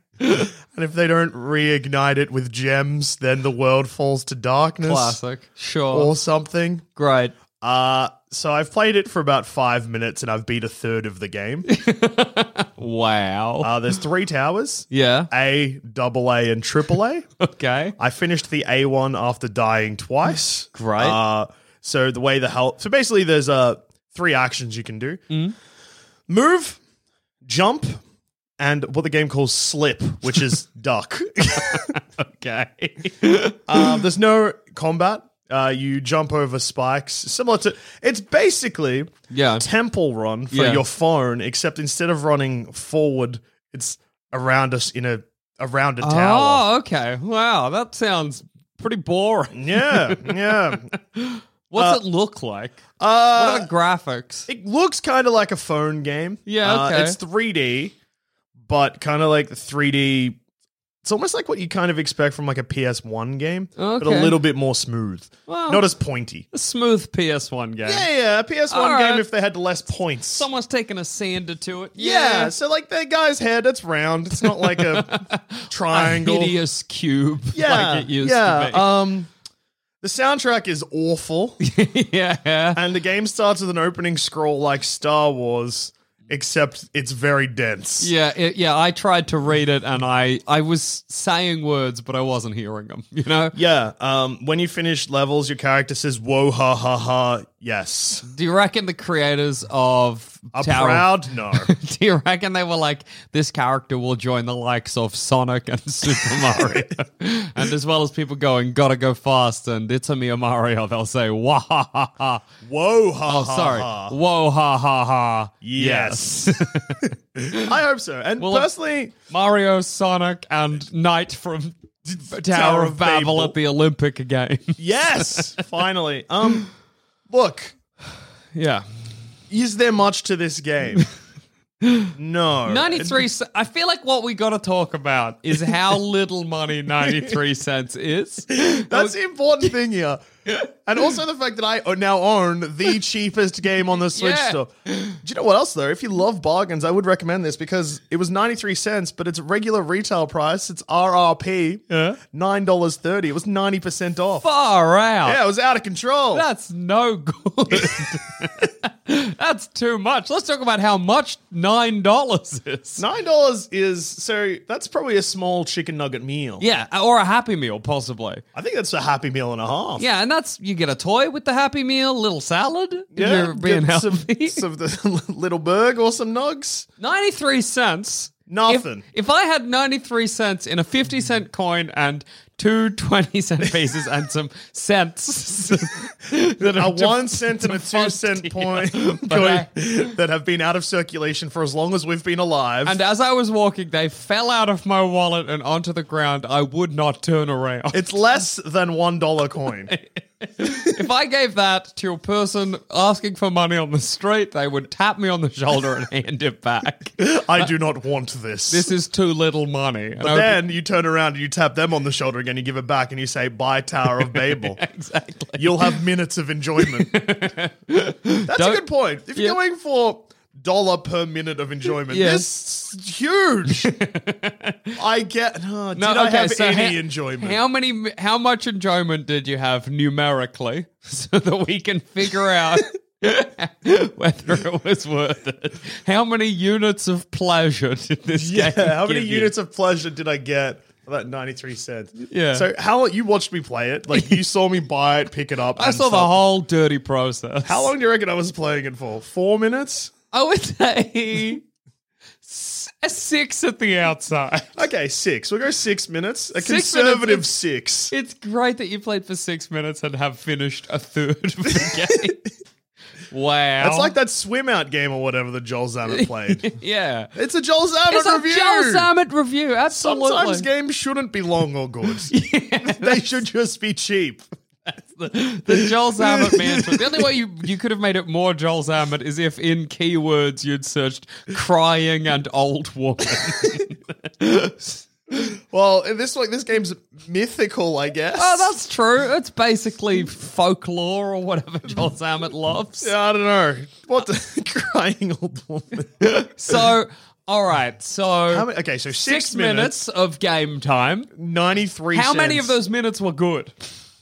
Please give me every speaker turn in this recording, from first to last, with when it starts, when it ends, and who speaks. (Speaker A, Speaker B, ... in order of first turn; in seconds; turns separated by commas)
Speaker A: 0.2-5.2, Speaker B: 4.8-6.1, Speaker A: 5.9-6.8, Speaker B: 7.0-7.3, Speaker A: 7.6-11.7, Speaker B: 11.7-13.7, Speaker A: 13.6-17.2, Speaker B: 14.9-15.3, Speaker B: 17.4-17.9, Speaker A: 18.0-25.2, Speaker B: 20.7-21.2, Speaker A: 26.3-26.8, Speaker A: 27.4-28.0, Speaker A: 28.6-31.9, Speaker B: 31.6-34.0, Speaker A: 33.7-46.6, Speaker B: 39.3-39.6, Speaker B: 40.5-40.8, Speaker B: 46.0-54.5, Speaker A: 49.5-50.8, Speaker A: 53.0-53.7, Speaker A: 54.5-57.9, Speaker B: 56.5-57.2, Speaker A: 58.6-60.4, Speaker A: 61.0-66.5, Speaker B: 63.8-64.4, Speaker B: 65.5-65.8, Speaker B: 66.5-68.1, Speaker A: 67.8-70.5, Speaker B: 68.7-69.2, Speaker B: 70.3-72.5, Speaker A: 72.0-76.5, Speaker B: 74.4-79.0, Speaker A: 77.5-79.3, Speaker A: 80.0-81.6, Speaker B: 81.6-82.8, Speaker A: 82.7-88.1, Speaker B: 88.0-93.5, Speaker A: 93.5-98.2, Speaker B: 98.3-112.4, Speaker A: 100.5-101.7, Speaker A: 106.2-106.9, Speaker A: 112.6-114.1, Speaker B: 113.2-117.6, Speaker A: 115.6-119.1, Speaker B: 118.4-118.7, Speaker B: 119.2-125.5, Speaker A: 122.2-123.5, Speaker A: 124.8-126.7, Speaker A: 127.3-127.7, Speaker B: 128.5-128.8, Speaker A: 129.5-131.1, Speaker B: 131.8-132.1, Speaker A: 132.1-133.2, Speaker B: 132.7-139.7, Speaker A: 137.0-137.3, Speaker A: 138.7-140.2, Speaker A: 140.8-154.5, Speaker B: 144.1-145.1, Speaker B: 151.9-152.2, Speaker B: 154.4-155.4, Speaker A: 155.2-156.4, Speaker B: 156.3-163.0, Speaker A: 157.7-157.9, Speaker A: 163.0-166.6, Speaker B: 166.6-168.4, Speaker A: 168.5-170.0, Speaker B: 170.0-174.6, Speaker A: 173.1-176.8, Speaker B: 177.0-189.7, Speaker A: 178.5-179.0, Speaker A: 186.6-193.0, Speaker B: 192.8-198.0, Speaker A: 197.9-199.9, Speaker B: 199.9-207.7, Speaker A: 207.2-208.9, Speaker B: 208.7-210.6, Speaker A: 210.2-214.8, Speaker B: 214.2-216.0, Speaker A: 215.6-217.2, Speaker B: 216.8-219.6, Speaker A: 218.5-223.9, Speaker B: 222.1-222.5, Speaker B: 223.7-224.9, Speaker A: 225.0-227.6, Speaker B: 225.9-239.5, Speaker A: 238.4-246.4, Speaker B: 242.3-242.7, Speaker B: 244.1-244.4, Speaker B: 245.8-247.9, Speaker A: 247.7-250.1, Speaker B: 250.3-251.6, Speaker B: 252.4-254.7, Speaker A: 254.8-258.1, Speaker B: 256.6-257.5, Speaker B: 258.1-262.4, Speaker A: 261.8-262.3, Speaker B: 263.3-264.1, Speaker A: 263.8-266.7, Speaker B: 266.1-267.3, Speaker A: 267.4-269.1, Speaker B: 268.1-270.6, Speaker A: 269.9-272.3, Speaker B: 272.3-273.4, Speaker A: 272.8-274.4, Speaker B: 274.9-284.9, Speaker A: 275.7-277.3, Speaker A: 285.3-288.7, Speaker B: 288.4-293.1, Speaker A: 293.0-296.9, Speaker B: 296.3-301.3, Speaker A: 298.5-300.0, Speaker A: 301.4-302.7, Speaker B: 302.1-303.7